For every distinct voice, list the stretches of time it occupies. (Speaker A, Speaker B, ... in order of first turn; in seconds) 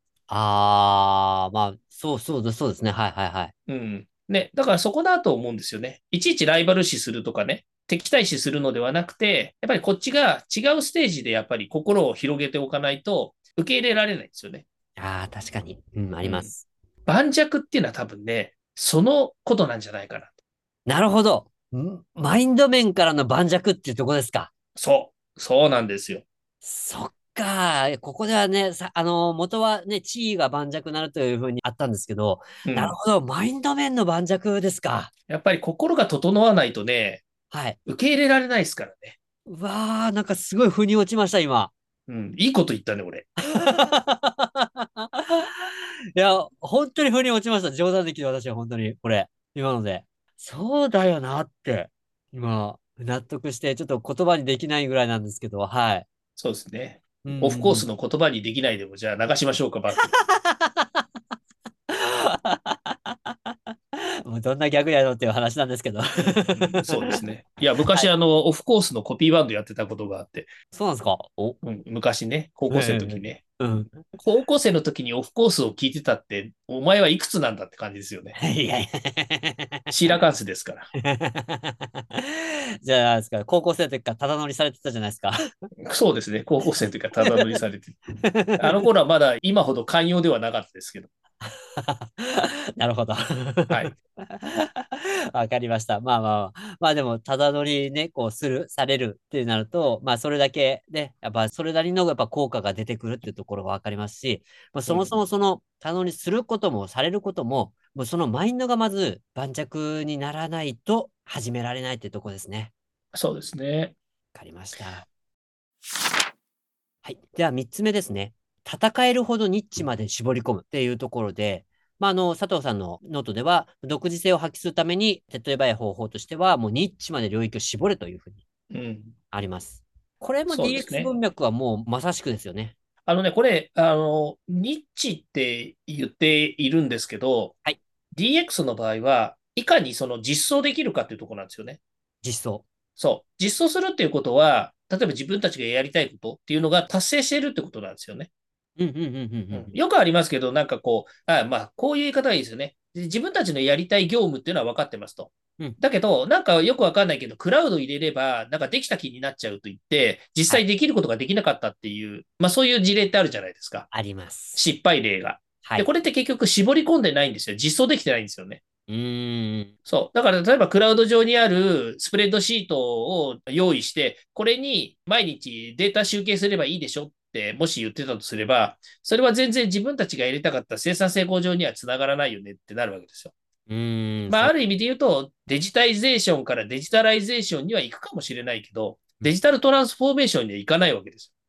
Speaker A: 0.3-3.5, 15.0-16.6, 20.9-24.5, 26.6-35.1, 37.5-37.8, 39.5-41.7, 43.5-56.1, 57.2-57.9, 60.0-61.0, 61.9-67.2, 70.7-71.6, 72.7-74.2, 78.4-79.9, 81.0-85.5, 87.2-87.6, 88.2-88.9, 91.4-112.7, 114.3-115.1, 117.0-128.4, 129.3-132.7, 142.2-142.7, 148.8-149.8, 163.9-164.6, 165.6-165.9, 168.9-169.7, 183.7-184.6
Speaker B: 3.7-14.7, 16.2-16.5, 17.1-20.3, 24.8-26.2, 32.6-33.0, 35.3-37.2, 37.9-39.2, 42.1-43.3, 56.4-60.1, 66.5-70.5, 71.6-73.4, 74.2-78.4, 79.9-80.9, 85.8-88.0, 88.6-91.1, 93.7-94.0, 104.9-105.2, 113.1-114.0, 128.7-129.2, 130.5-131.1, 133.1-137.6, 138.2-141.8, 143.0-148.3, 149.5-163.9, 164.6-168.6, 169.9-183.3, 184.3-191.3